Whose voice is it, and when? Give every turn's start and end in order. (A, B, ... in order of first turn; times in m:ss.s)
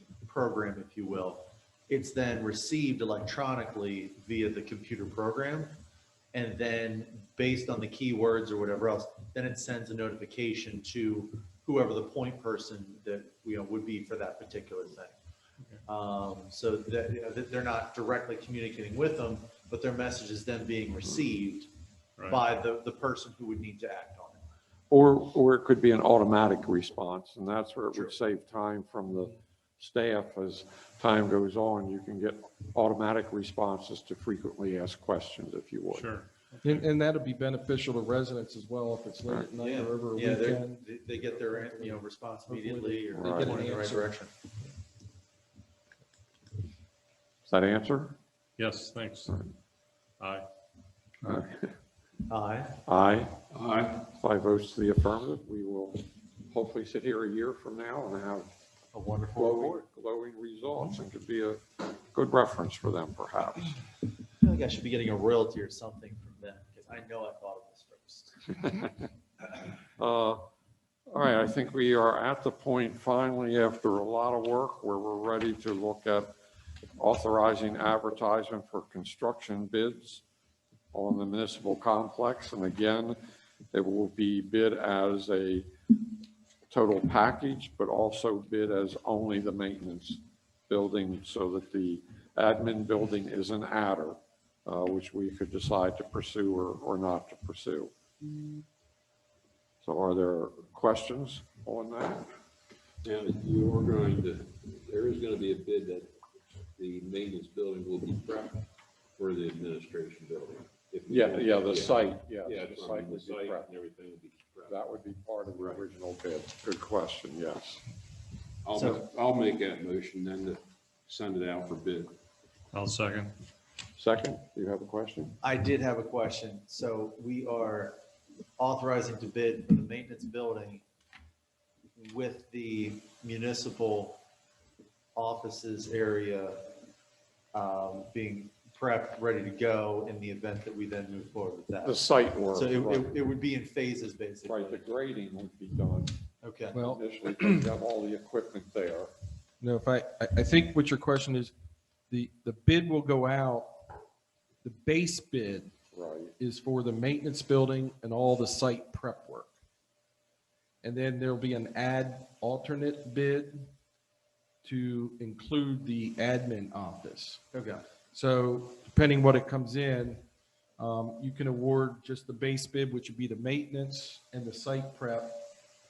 0:00.2-0:05.8 A
0:06.3-0:15.2 A
0:15.9-0:21.7 A
0:22.2-0:22.4 B
0:22.3-0:24.4 A
0:24.9-0:36.1 C
0:35.9-0:36.8 B
0:36.6-0:40.8 D
0:39.6-0:44.3 A
0:41.5-0:44.1 D
0:43.1-0:43.6 C
0:47.5-0:48.2 C
0:48.6-0:49.4 B
0:50.2-0:50.5 B
0:51.2-0:51.8 C
0:52.3-0:52.8 A
0:52.9-0:53.4 C
0:53.5-0:54.0 E
0:54.0-0:58.5 C
0:58.9-0:59.9 A
0:59.4-1:03.8 C
1:04.4-1:08.8 A
1:10.0-1:10.4 C
1:11.1-1:16.4 C
1:17.0-1:20.2 C
1:20.9-1:23.2 C
1:23.7-1:25.7 C
1:26.7-1:37.9 C
1:39.8-1:42.3 C
1:43.0-1:46.2 E
1:46.8-1:48.6 E
1:49.2-1:54.8 E
1:51.1-1:53.7 C
1:54.7-1:57.8 C
1:55.6-1:55.8 E
1:58.6-2:02.1 E
1:58.7-1:59.1 A
2:02.7-2:03.4 B
2:04.0-2:05.4 C
2:05.4-2:08.0 A
2:08.6-2:10.8 A
2:12.0-2:14.2 A
2:15.2-2:16.7 A
2:17.5-2:24.9 A
2:21.8-2:23.2 C
2:24.4-2:26.1 C
2:26.4-2:26.8 A
2:26.7-2:29.1 C
2:26.8-2:27.6 D
2:29.6-2:31.5 D
2:32.1-2:33.8 D
2:34.6-2:35.8 D
2:35.9-2:36.3 C
2:36.4-2:39.5 D
2:40.8-2:43.7 D
2:44.6-2:47.4 D
2:47.5-2:47.8 A
2:48.1-2:50.2 D
2:50.8-2:55.4 D